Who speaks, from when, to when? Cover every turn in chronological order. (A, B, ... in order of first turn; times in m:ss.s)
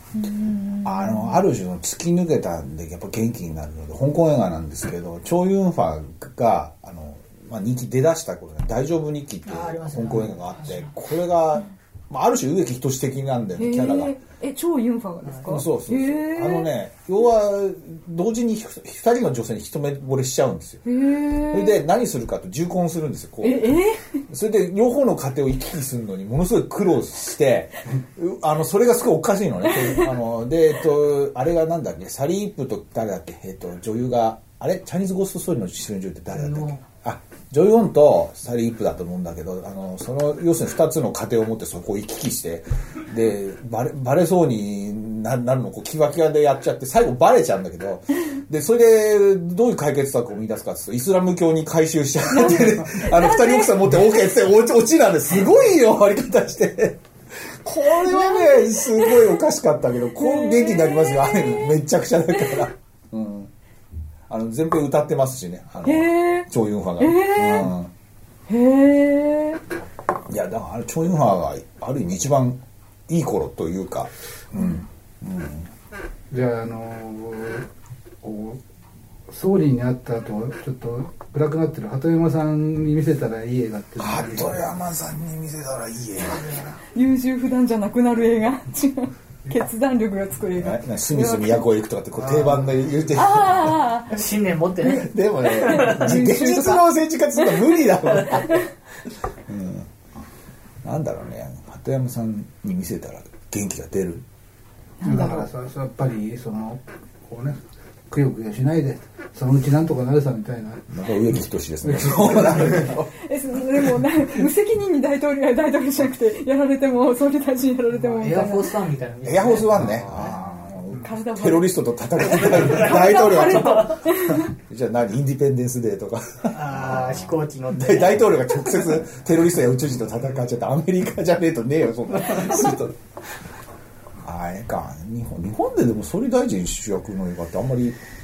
0:00.2-0:01.3 A
0:00.8-0:14.2 B
0:09.5-0:10.9 C
0:13.6-0:16.7 A
0:15.3-0:15.6 C
0:15.4-0:20.8 B
0:20.9-0:21.8 A
0:21.4-0:23.8 B
0:23.4-0:24.2 A
0:24.3-0:57.0 B
0:36.4-0:36.8 C
0:52.4-0:53.8 A
0:57.6-1:03.5 B
0:58.0-0:59.3 A
1:00.2-1:01.8 A
1:04.3-1:07.9 B
1:05.8-1:06.5 A
1:07.0-1:07.7 A
1:08.5-1:09.6 A
1:10.3-1:15.7 B
1:16.3-1:17.7 D
1:18.2-1:18.6 D
1:19.3-1:24.7 D
1:24.0-1:26.8 B
1:27.0-1:31.6 A
1:30.6-1:33.8 B
1:33.1-1:34.2 A
1:34.1-1:36.0 C
1:35.0-1:38.6 B
1:35.8-1:36.9 A
1:39.5-1:39.9 B
1:40.8-1:44.2 B
1:45.0-1:45.5 A
1:45.0-1:50.8 D
1:50.9-1:53.1 B
1:51.8-1:52.9 D
1:53.1-1:58.8 A
1:58.0-2:00.4 C
1:59.2-2:13.0 B
2:01.0-2:01.7 A
2:02.4-2:04.5 A
2:02.6-2:02.9 C
2:03.6-2:03.9 C
2:06.5-2:08.5 C
2:14.2-2:18.0 B